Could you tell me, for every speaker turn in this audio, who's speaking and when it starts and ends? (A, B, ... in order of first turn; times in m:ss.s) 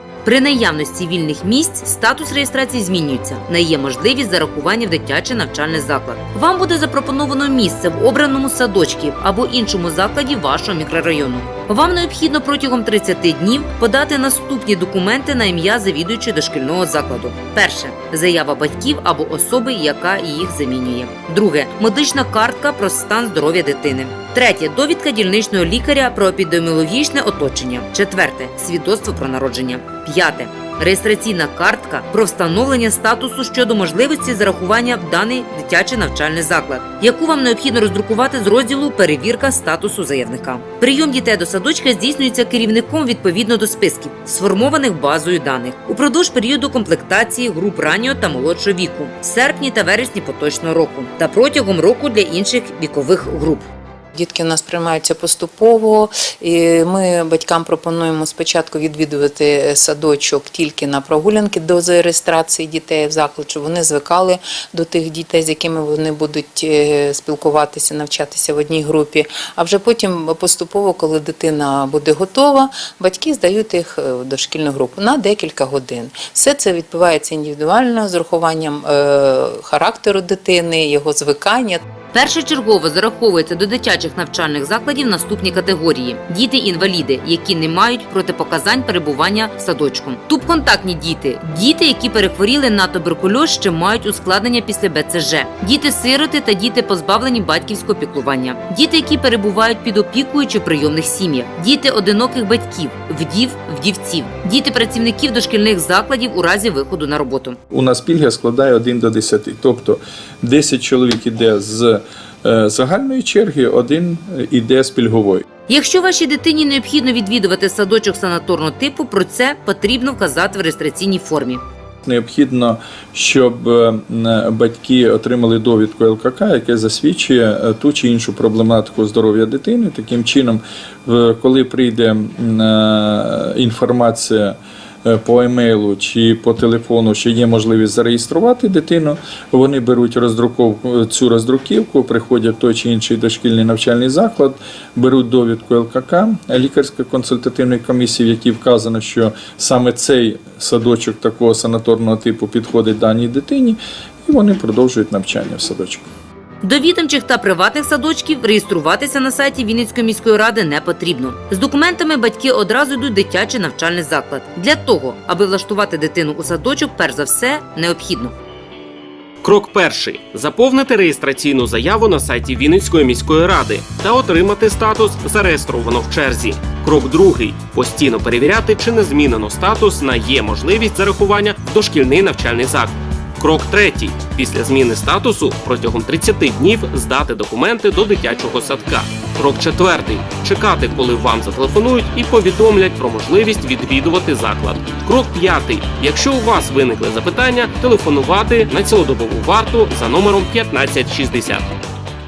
0:00.2-0:53.7 A
0:54.2-1:21.8 B
1:22.1-1:47.6 A
1:47.7-1:55.4 C
1:55.7-2:01.6 A
2:02.0-2:36.1 C
2:36.6-2:48.3 A
2:49.4-3:21.7 D